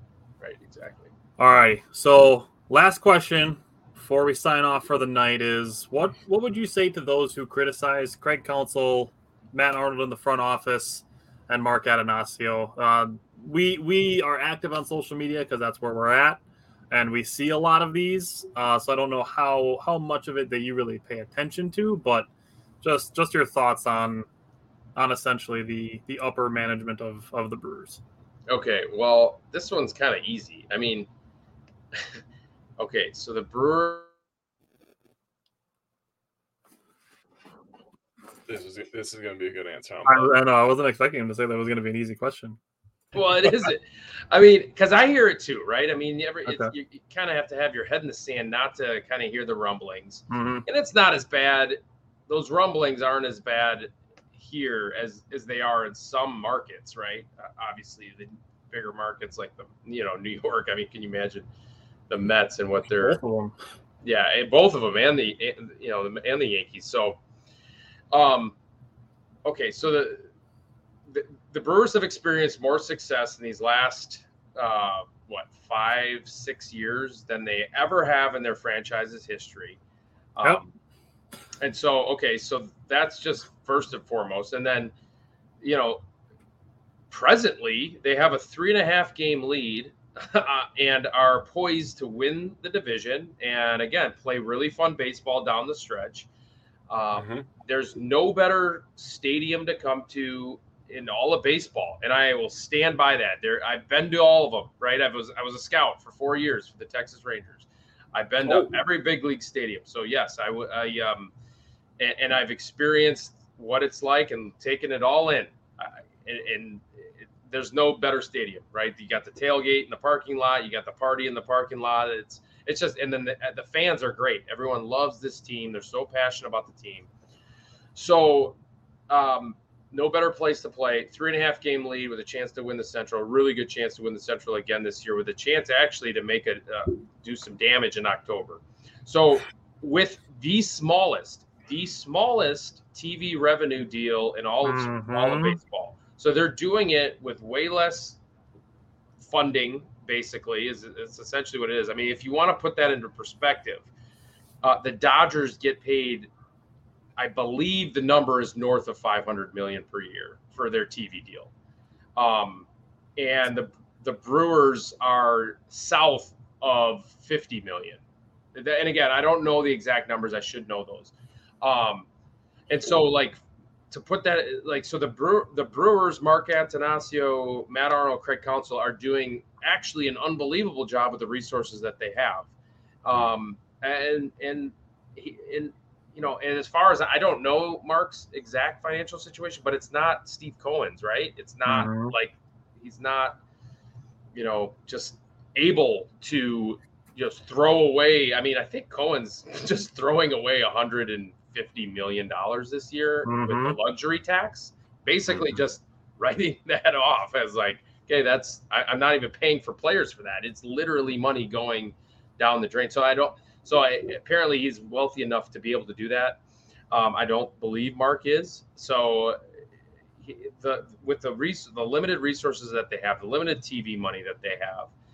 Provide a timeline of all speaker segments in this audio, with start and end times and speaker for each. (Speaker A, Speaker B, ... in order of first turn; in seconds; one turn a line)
Speaker A: 0.4-1.1
Speaker B: 1.4-22.3
Speaker B: 22.8-24.3
Speaker B: 25.0-28.0
Speaker A: 28.5-31.1
Speaker A: 32.8-34.1
Speaker C: 38.5-40.3
Speaker B: 40.0-42.6
Speaker A: 43.1-61.5
Speaker B: 46.5-46.7
Speaker B: 50.3-50.6
Speaker A: 62.1-63.2
Speaker B: 62.9-63.6
Speaker A: 64.0-67.2
Speaker A: 68.1-68.5
Speaker A: 69.5-70.3
Speaker A: 71.1-79.8
Speaker A: 80.3-80.7
Speaker A: 81.6-84.9
Speaker A: 85.6-86.0
Speaker A: 87.1-96.3
Speaker A: 96.9-111.3
Speaker C: 97.2-97.5
Speaker C: 108.5-108.7
Speaker A: 112.0-127.1
Speaker A: 127.9-128.6
Speaker A: 129.1-148.2
Speaker B: 144.6-145.6
Speaker A: 149.2-153.9
Speaker A: 154.6-156.3
Speaker A: 157.2-161.5
Speaker A: 162.2-168.0
Speaker A: 168.6-172.1
Speaker A: 172.7-173.4
Speaker A: 173.9-182.5
Speaker A: 183.0-193.4
Speaker B: 191.7-192.1
Speaker A: 194.3-216.4
Speaker B: 203.3-203.8
Speaker A: 216.9-219.4
Speaker A: 220.2-224.9